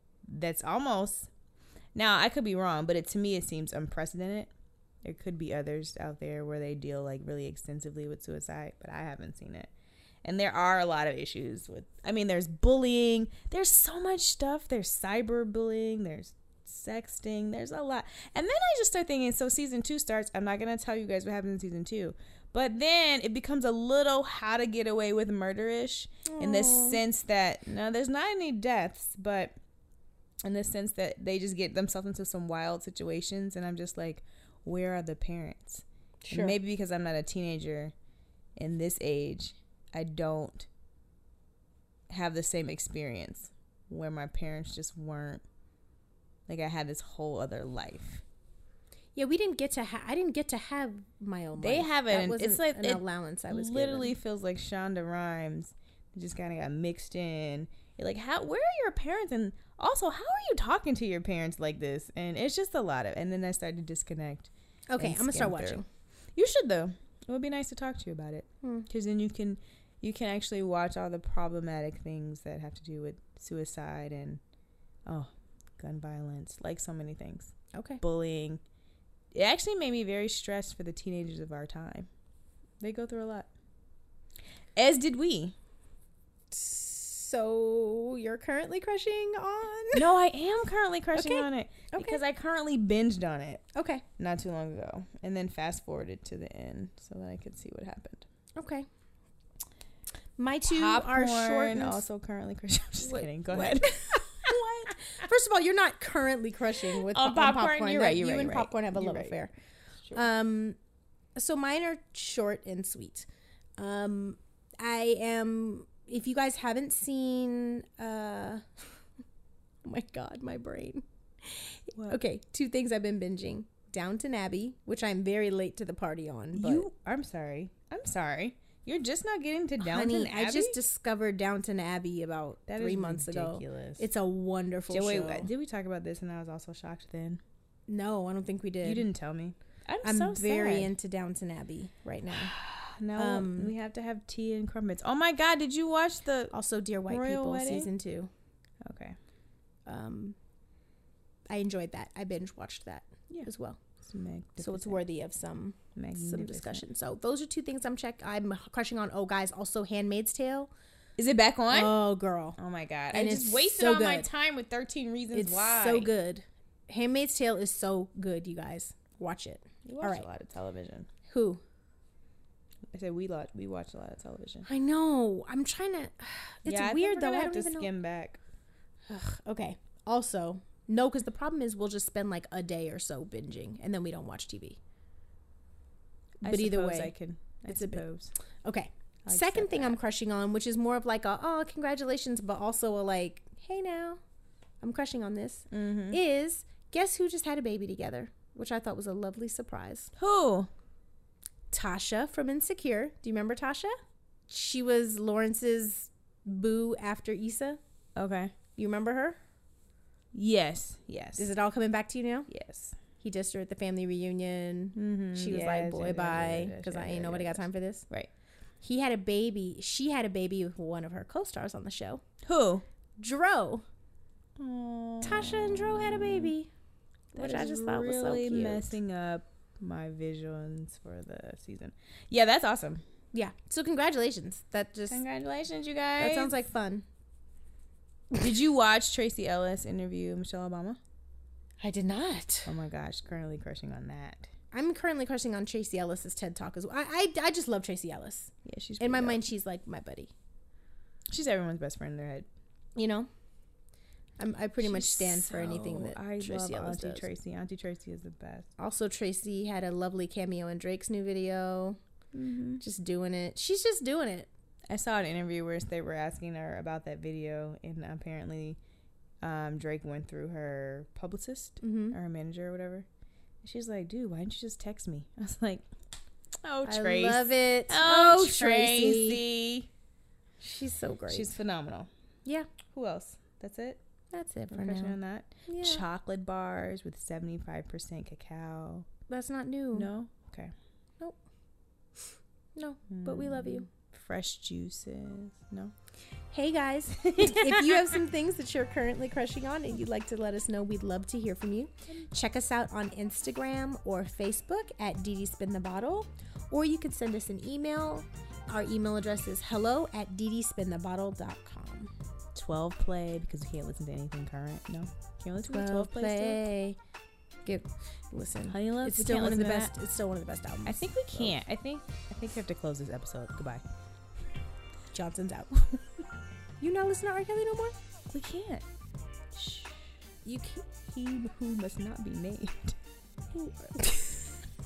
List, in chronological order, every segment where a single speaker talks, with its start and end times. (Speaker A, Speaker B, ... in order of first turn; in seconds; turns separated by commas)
Speaker A: 0.3-1.3, Speaker A: 1.9-4.5, Speaker A: 5.0-9.7, Speaker A: 10.2-29.6, Speaker B: 26.3-27.0, Speaker A: 30.4-37.9, Speaker B: 36.2-36.5, Speaker A: 38.6-40.7, Speaker A: 42.1-45.4, Speaker A: 46.5-48.2, Speaker B: 49.1-54.1, Speaker A: 51.6-65.8, Speaker B: 64.9-65.8, Speaker A: 66.3-74.4, Speaker B: 68.6-68.9, Speaker A: 75.0-78.6, Speaker B: 77.7-78.0, Speaker A: 79.3-82.1, Speaker A: 82.8-83.5, Speaker A: 84.8-85.5, Speaker B: 86.5-90.1, Speaker A: 89.9-93.6, Speaker B: 91.1-92.2, Speaker B: 93.7-94.0, Speaker A: 94.2-98.2, Speaker B: 98.5-98.9, Speaker B: 100.4-102.0, Speaker A: 100.7-104.6, Speaker B: 103.0-109.5, Speaker A: 107.0-109.3, Speaker B: 110.1-110.8, Speaker B: 111.3-118.6, Speaker B: 119.8-126.8, Speaker A: 126.5-130.8, Speaker B: 129.8-135.5, Speaker A: 132.7-134.0, Speaker A: 134.9-137.4, Speaker B: 137.9-139.1, Speaker A: 138.8-140.9, Speaker B: 140.0-142.5, Speaker A: 142.3-146.5, Speaker B: 143.1-143.7, Speaker B: 146.5-148.3, Speaker A: 147.1-147.9, Speaker A: 148.8-149.2, Speaker B: 149.8-150.3, Speaker B: 151.5-153.8, Speaker A: 154.0-155.0, Speaker B: 154.6-160.7, Speaker A: 155.9-156.8, Speaker A: 161.2-162.0, Speaker B: 161.7-162.6, Speaker A: 162.6-166.1, Speaker B: 163.1-164.3, Speaker B: 165.3-170.2, Speaker A: 169.8-171.1, Speaker B: 171.3-171.6, Speaker A: 172.9-174.7, Speaker B: 174.7-177.9, Speaker A: 176.6-178.4, Speaker B: 179.1-184.8, Speaker A: 186.4-188.3, Speaker B: 186.4-187.1, Speaker B: 187.7-188.0, Speaker B: 188.6-194.2, Speaker A: 189.2-190.0, Speaker B: 194.8-200.1, Speaker A: 195.7-196.2, Speaker A: 200.2-200.7, Speaker B: 201.7-203.9, Speaker B: 204.5-207.8, Speaker A: 208.2-208.5, Speaker B: 208.8-209.4, Speaker A: 210.3-211.5, Speaker B: 211.4-212.5, Speaker A: 212.5-212.9, Speaker B: 213.2-218.1, Speaker A: 214.9-218.3, Speaker B: 218.8-222.2, Speaker A: 222.4-222.8, Speaker B: 223.2-223.8, Speaker A: 224.6-226.5, Speaker B: 225.2-226.7, Speaker B: 227.3-228.9, Speaker A: 227.3-233.0, Speaker B: 233.3-235.2, Speaker A: 235.1-236.5, Speaker B: 236.2-237.1, Speaker A: 238.3-241.0, Speaker B: 241.8-242.7, Speaker A: 242.7-244.5, Speaker B: 244.7-250.3, Speaker A: 248.6-249.4, Speaker A: 251.3-252.5, Speaker B: 252.9-253.3, Speaker B: 254.4-257.3, Speaker A: 254.8-258.7, Speaker B: 258.8-262.0, Speaker A: 262.3-262.8, Speaker B: 262.8-264.5, Speaker A: 264.9-268.8, Speaker A: 269.4-273.1, Speaker B: 271.8-272.1, Speaker A: 273.6-275.9, Speaker A: 276.6-279.9, Speaker B: 276.8-279.4, Speaker B: 280.6-281.5, Speaker A: 281.3-282.1, Speaker B: 282.4-282.7, Speaker A: 282.9-284.0, Speaker B: 284.3-286.0, Speaker A: 284.7-289.1, Speaker B: 289.3-290.1, Speaker A: 289.9-290.7, Speaker B: 292.8-293.9, Speaker A: 293.1-295.9, Speaker B: 296.5-312.1, Speaker A: 297.2-298.2, Speaker A: 312.5-316.6, Speaker B: 315.6-317.0, Speaker B: 317.6-321.5, Speaker A: 318.7-319.9, Speaker A: 320.9-323.8, Speaker B: 325.1-325.8, Speaker B: 326.8-327.9, Speaker A: 328.3-328.8, Speaker B: 329.6-329.8, Speaker B: 330.4-330.9, Speaker A: 331.0-333.0, Speaker B: 333.5-334.2